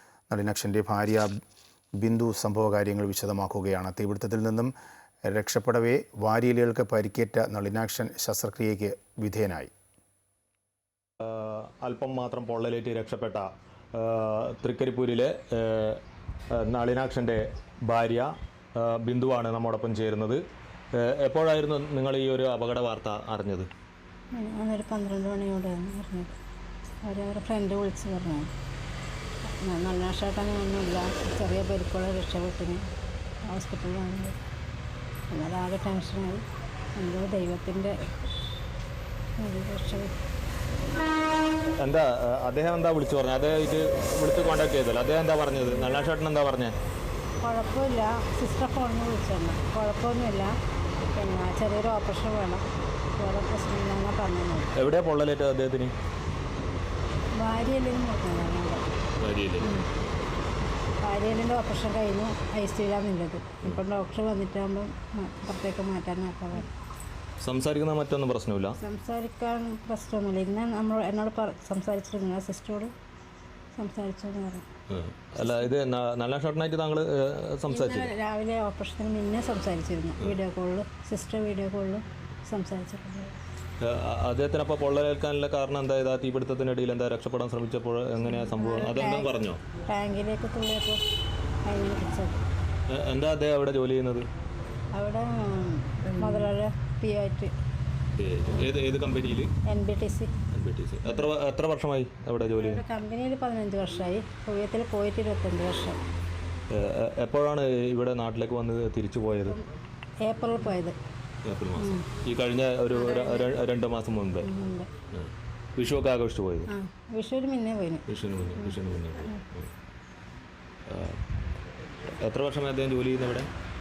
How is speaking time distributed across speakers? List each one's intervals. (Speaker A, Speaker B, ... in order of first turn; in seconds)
Speaker A: 0.3-1.3, 2.0-4.7, 5.2-9.7
Speaker B: 11.2-16.0, 16.5-20.4, 21.0-23.7, 41.8-46.7, 54.8-55.9, 59.2-59.9, 67.4-68.8, 74.9-78.1, 83.8-89.6, 92.9-94.3, 98.2-99.5, 100.5-102.8, 106.7-109.6, 111.5-114.5, 115.1-116.7, 118.1-119.7, 120.9-121.2, 122.2-123.5
Speaker C: 24.3-26.4, 27.0-28.5, 29.6-32.9, 33.5-34.4, 35.3-36.4, 37.0-38.0, 39.4-40.1, 47.4-50.5, 51.1-52.6, 53.1-54.8, 57.3-58.8, 61.0-66.7, 68.8-72.9, 73.8-74.7, 77.7-83.3, 88.3-89.3, 89.9-91.0, 91.6-92.4, 94.9-97.5, 99.7-100.3, 102.6-106.0, 110.2-111.0, 111.8-112.0, 113.1-113.5, 114.4-114.9, 116.7-118.0